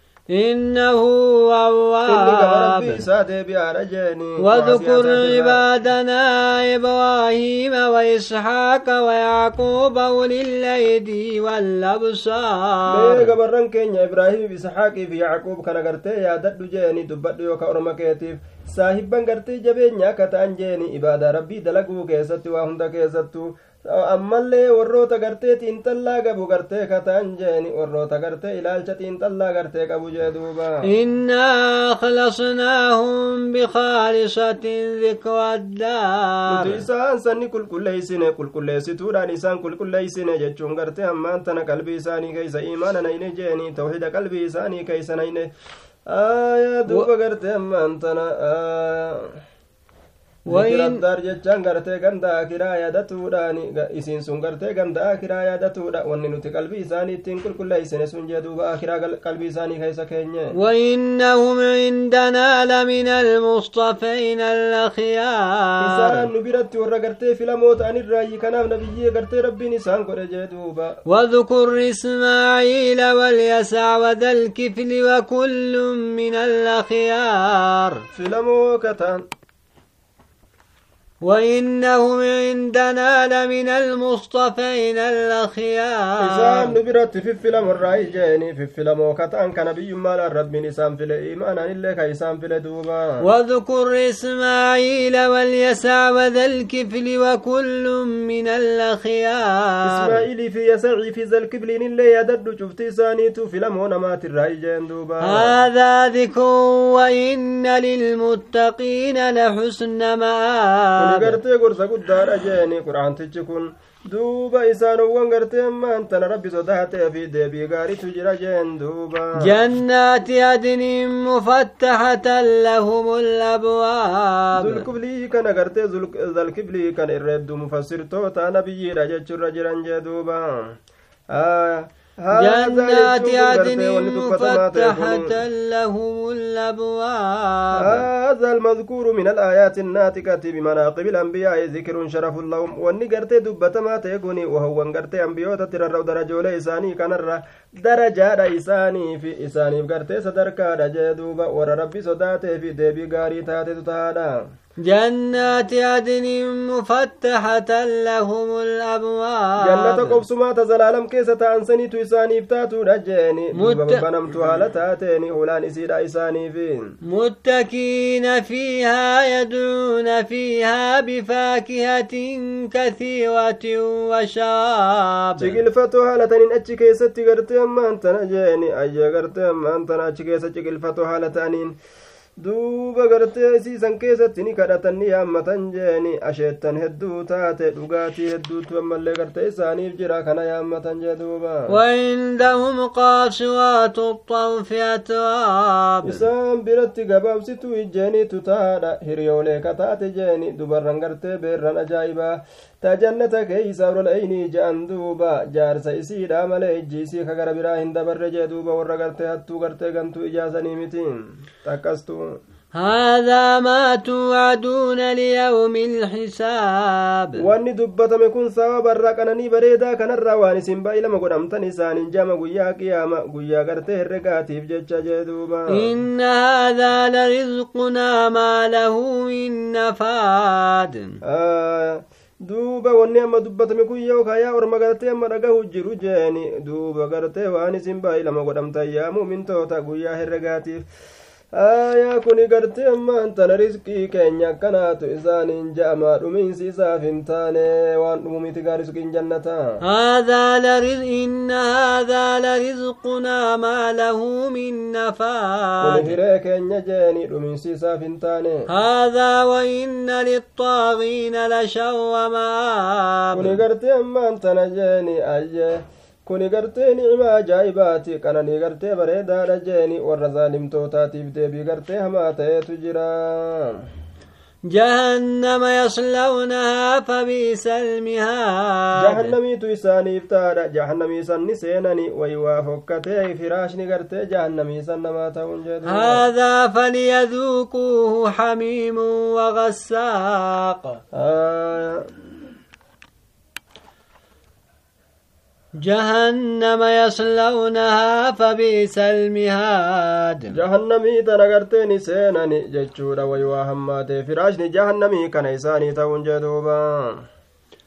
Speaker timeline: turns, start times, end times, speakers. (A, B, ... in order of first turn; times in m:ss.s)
0:00.3-0:03.0 A
0:02.1-0:05.6 B
0:04.4-0:13.3 A
0:12.9-0:30.8 B
0:30.8-0:36.8 A
0:36.5-0:45.5 B
0:46.1-0:49.3 B
0:50.5-0:51.0 A
0:50.5-1:00.5 B
1:00.5-1:06.3 A
1:05.8-1:11.0 B
1:11.1-1:18.0 A
1:18.1-1:19.2 B
1:21.2-1:26.7 A
1:26.2-1:33.2 B
1:33.2-1:40.2 A
1:39.8-1:45.5 B
1:45.2-1:51.4 A
1:51.0-1:59.5 B
1:59.4-2:04.8 A
2:04.6-2:10.5 B
2:11.3-2:15.3 B
2:12.3-2:18.0 A
2:17.8-2:34.4 B
2:34.8-2:40.2 A
2:39.6-2:46.8 B
2:43.6-2:44.0 A
2:47.1-2:55.6 A
2:55.4-3:01.7 B
3:02.4-3:11.7 B
3:11.7-3:16.2 A
3:16.0-3:31.1 B
3:31.6-3:32.3 B
3:32.7-3:37.4 A
3:37.4-3:45.9 B
3:45.7-3:51.1 A
3:51.2-4:00.8 B
4:01.6-4:09.6 B
4:09.8-4:16.1 A
4:15.8-4:18.6 B
4:18.7-4:23.6 A
4:23.3-4:33.7 B
4:34.7-4:39.3 A
4:39.0-4:46.2 B
4:45.8-4:51.0 A
4:51.1-4:52.1 B
4:55.8-5:00.6 A
5:00.5-5:07.1 B